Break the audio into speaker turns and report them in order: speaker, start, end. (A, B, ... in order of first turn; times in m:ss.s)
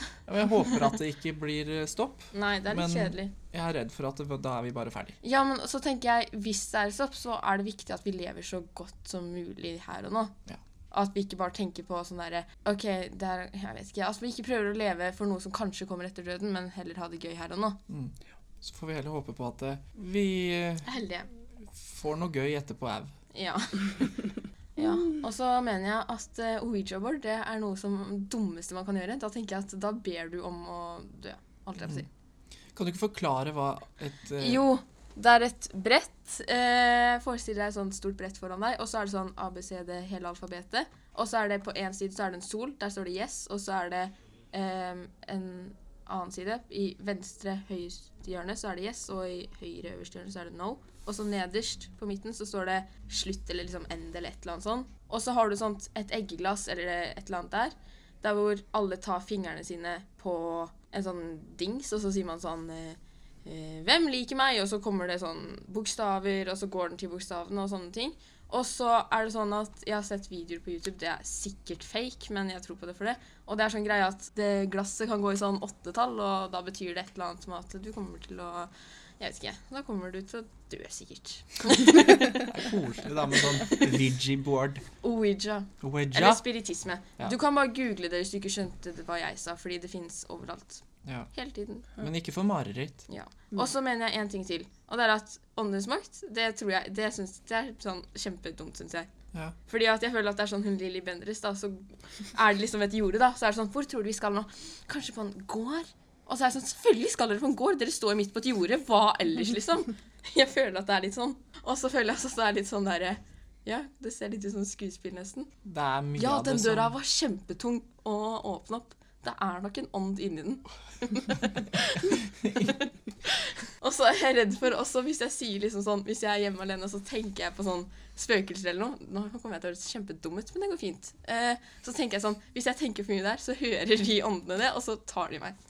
0:00.3-0:05.2 A
0:02.3-0:03.3 B
0:05.2-0:10.4 B
0:10.9-0:17.8 B
0:17.9-0:20.9 A
0:20.8-0:21.3 B
0:21.7-0:23.1 A
0:23.3-0:24.2 B
0:24.8-0:32.1 B
0:31.8-0:32.0 A
0:32.7-0:34.6 A
0:34.4-1:22.6 B
1:22.2-1:24.8 A
1:25.0-1:32.0 B
1:25.8-1:26.4 A
1:31.0-1:31.3 A
1:32.0-1:33.0 A
1:33.1-1:39.1 B
1:39.7-1:55.5 B
1:55.6-1:56.9 A
1:56.2-2:15.6 B
2:02.2-2:02.7 A